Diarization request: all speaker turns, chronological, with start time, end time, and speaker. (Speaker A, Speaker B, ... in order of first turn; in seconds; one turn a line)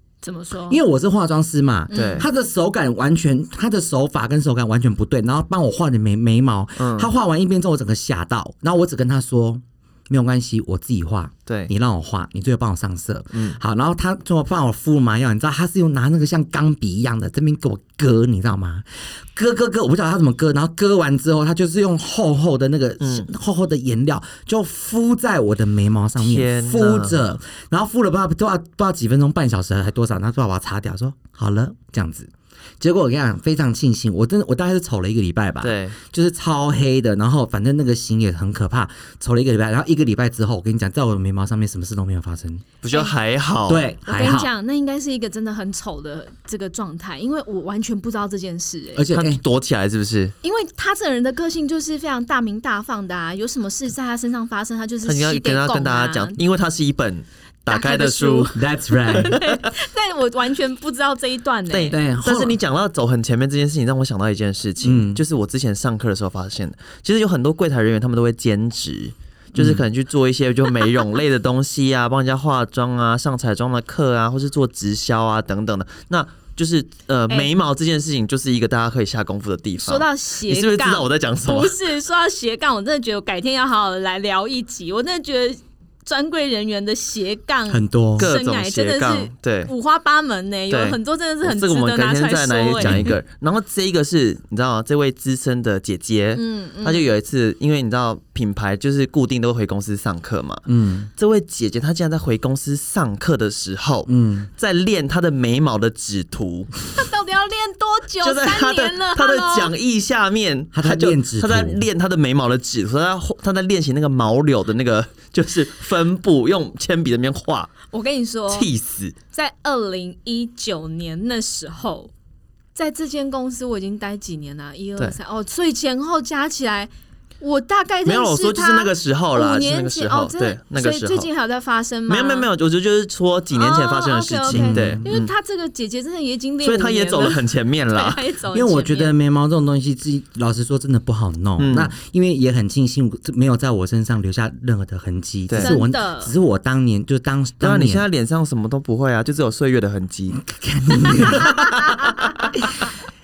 Speaker A: 0.2-0.8
Speaker B: 0.7-42.7
Speaker A: 1.9-2.3
Speaker C: 1.9-2.3
Speaker C: 6.8-7.1
Speaker C: 23.0-23.3
Speaker C: 26.2-27.2
Speaker C: 35.6-36.0
Speaker C: 42.8-43.9
Speaker B: 43.7-44.5
Speaker A: 44.0-49.1
Speaker B: 49.0-49.4
Speaker C: 49.1-50.3
Speaker A: 50.4-56.4
Speaker C: 55.0-58.5
Speaker A: 57.7-62.0
Speaker B: 58.5-59.4
Speaker C: 59.1-59.6
Speaker C: 61.7-81.8
Speaker B: 61.9-62.6
Speaker B: 64.8-65.2
Speaker B: 69.5-69.8
Speaker A: 79.8-93.2
Speaker B: 87.7-88.3
Speaker C: 88.2-89.7
Speaker C: 90.7-100.6
Speaker B: 92.8-93.2
Speaker A: 96.3-97.1
Speaker B: 100.7-101.1
Speaker C: 101.2-106.7
Speaker B: 104.1-104.5
Speaker A: 106.9-109.7
Speaker C: 108.2-117.7
Speaker B: 110.7-111.9
Speaker A: 117.9-118.7
Speaker C: 118.5-119.2
Speaker A: 119.3-122.1
Speaker A: 122.8-132.5
Speaker C: 128.1-131.3
Speaker C: 132.1-135.3
Speaker A: 133.5-139.1
Speaker B: 134.5-135.1
Speaker C: 136.6-138.2
Speaker B: 138.5-148.1
Speaker C: 141.6-141.9
Speaker A: 145.6-146.3
Speaker C: 147.6-150.4
Speaker B: 150.4-152.9